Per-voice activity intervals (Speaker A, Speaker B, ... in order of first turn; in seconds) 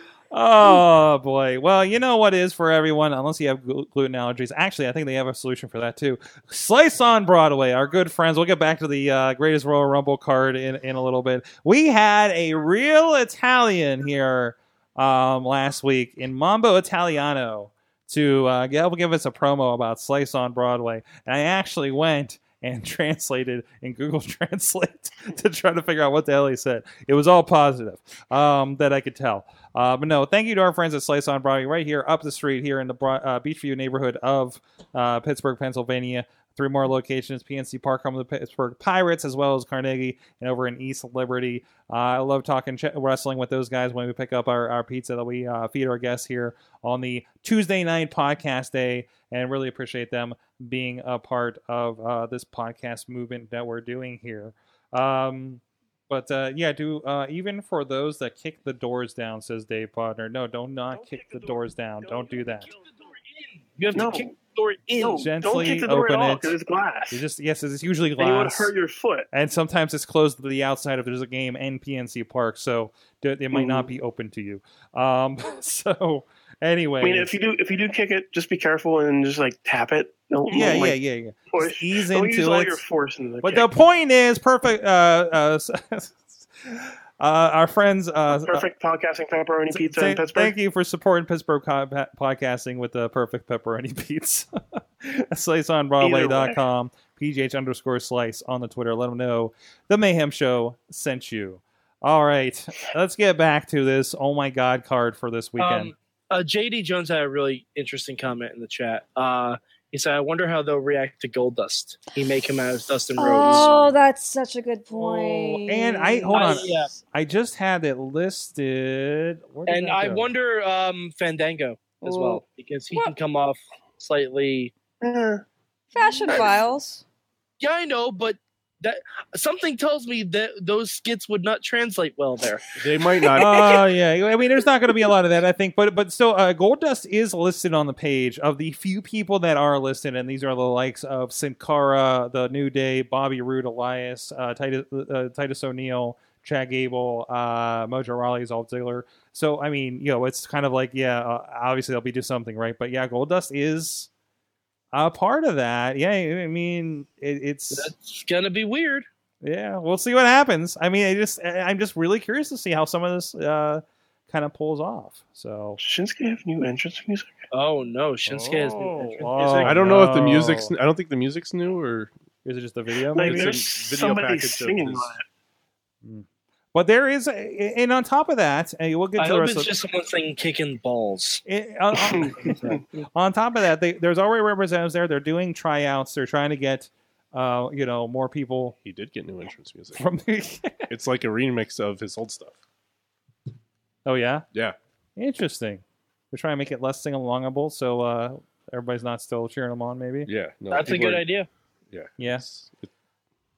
Speaker A: 0.3-62.7, 65.2-66.5, 67.1-68.7, 69.3-77.3, 80.5-82.8, 83.4-88.6, 89.7-105.9, 113.4-113.9, 115.7-120.3, 133.3-154.1, 154.9-157.9, 159.4-165.8, 168.3-170.7, 172.4-173.5, 176.0-179.7, 181.4-188.8, 189.9-190.9, 194.1-194.4, 195.2-200.3, 202.2-202.4
Speaker B: 60.9-62.9, 63.9-64.3, 65.0-67.2, 68.2-69.3, 73.5-73.9, 77.0-81.0, 81.5-83.7, 88.3-90.5, 96.0-96.6, 125.0-125.4, 165.8-167.3, 173.1-175.2, 182.0-182.8
Speaker C: 62.7-65.3, 105.6-113.8, 114.9-115.6, 116.3-116.9, 119.7-124.7, 127.6-132.6, 157.7-159.1, 167.5-169.8, 179.2-181.4, 200.7-201.5
Speaker D: 113.2-116.8, 122.0-123.1, 125.9-127.0, 133.6-133.8
Speaker E: 132.8-133.6, 169.6-172.1, 173.2-175.1, 188.8-190.0, 190.9-192.6, 200.3-201.2, 201.9-202.9